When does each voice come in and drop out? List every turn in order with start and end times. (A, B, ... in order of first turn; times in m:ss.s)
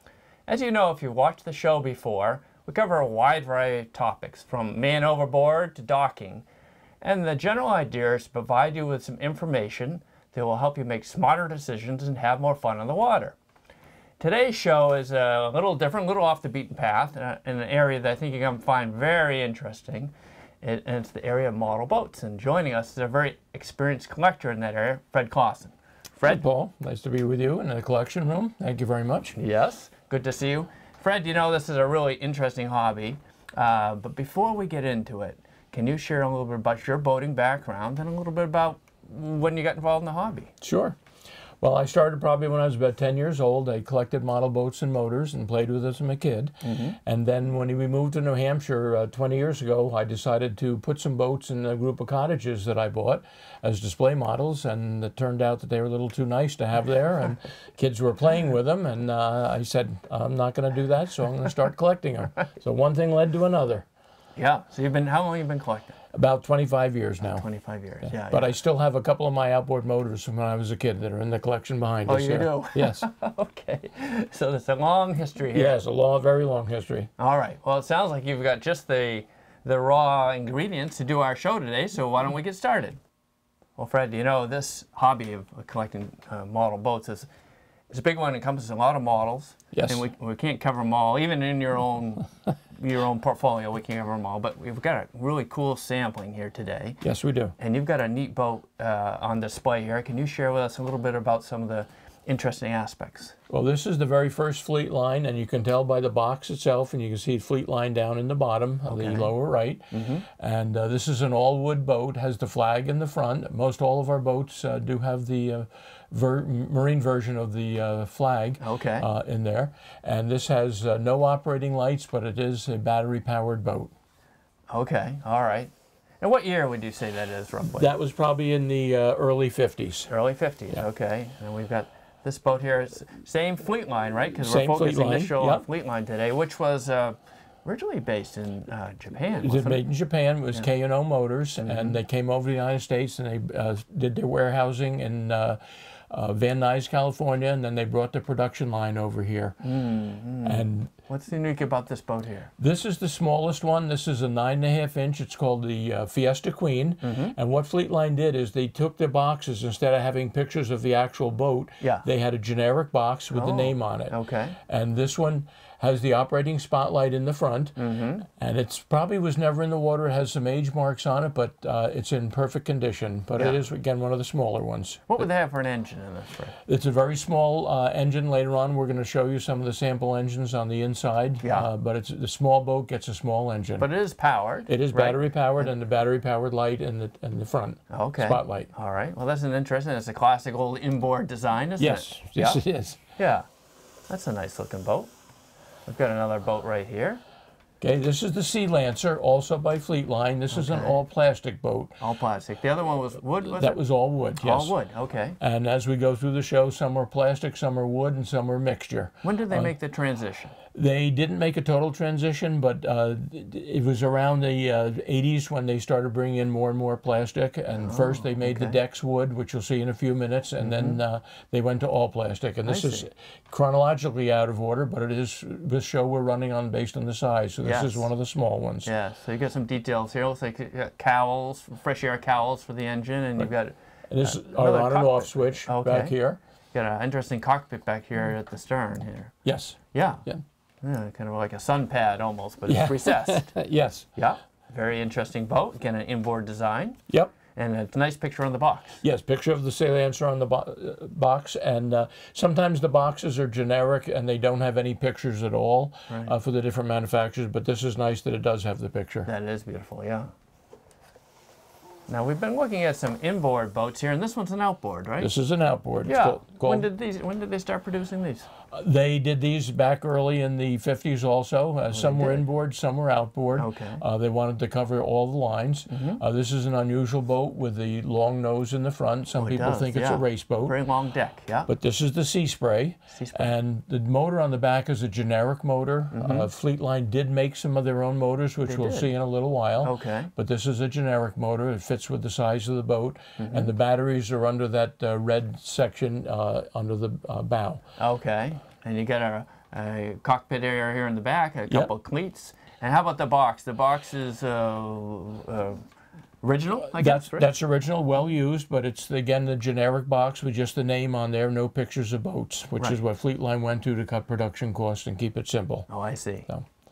0:00.5-0:06.4 A
0:07.0-0:13.4 A
0:14.2-0:26.4 A
0:26.2-0:29.4 B
0:29.4-0:40.5 A
0:40.6-0:41.0 B
0:41.6-1:03.8 B
0:46.6-0:47.0 A
1:04.4-1:06.0 A
1:06.1-1:07.4 B
1:07.2-1:08.6 A
1:08.1-1:13.0 B
1:12.0-1:15.8 A
1:15.5-1:17.1 B
1:17.2-1:23.0 A
1:23.8-1:27.3 A
1:27.9-1:37.0 A
1:29.7-1:30.0 B
1:37.0-1:37.5 B
1:37.6-1:43.4 A
1:43.5-2:03.9 B
1:48.9-1:49.3 A
1:49.9-1:50.2 A
1:58.6-1:59.1 A
2:04.7-2:07.9 A
2:07.6-2:10.1 B
2:10.1-2:19.8 A
2:14.4-2:15.6 B
2:19.4-2:29.6 B
2:21.6-2:22.0 A
2:29.6-2:32.5 A
2:30.4-2:30.9 B
2:32.6-2:55.3 B
2:37.0-2:37.3 A
2:43.3-2:44.6 A
2:47.8-2:48.3 A
2:55.1-2:56.5 A
2:56.6-3:03.9 B
3:01.4-3:01.7 A
3:03.8-3:05.6 A
3:04.7-3:08.7 B
3:07.9-3:12.6 A
3:11.8-3:13.0 B
3:13.2-3:13.5 A
3:14.1-3:15.1 A
3:15.8-3:17.2 A
3:17.8-3:22.0 B
3:20.5-3:21.0 A
3:22.0-3:23.8 A
3:23.4-3:24.7 B
3:24.4-3:25.4 A
3:25.4-3:29.7 B
3:29.2-3:30.6 A
3:30.7-3:48.9 B
3:37.7-3:38.8 A
3:40.6-3:41.0 A
3:42.6-3:43.0 A
3:47.6-3:48.1 A
3:48.8-3:56.1 A
3:54.1-3:56.4 B
3:56.7-3:59.3 A
3:59.4-4:00.4 B
3:59.9-4:00.2 A
4:00.8-4:03.5 A
4:02.6-4:04.1 B
4:04.2-4:07.0 A
4:07.1-4:07.3 B
4:07.5-4:09.0 A
4:09.0-4:19.3 B
4:16.1-4:16.3 A
4:19.2-4:20.3 A
4:22.1-4:25.3 A
4:25.2-4:26.9 B
4:26.0-4:28.5 A
4:28.7-4:40.8 B
4:31.9-4:32.4 A
4:33.6-4:34.0 A
4:35.9-4:36.2 A
4:39.3-4:41.7 A
4:41.7-4:57.8 B
4:43.1-4:43.5 A
4:46.1-4:46.5 A
4:48.7-4:49.1 A
4:49.8-4:50.3 A
4:53.4-4:53.7 A
4:58.0-5:05.8 A
5:06.4-5:07.5 A
5:06.9-5:15.9 B
5:15.9-5:16.5 A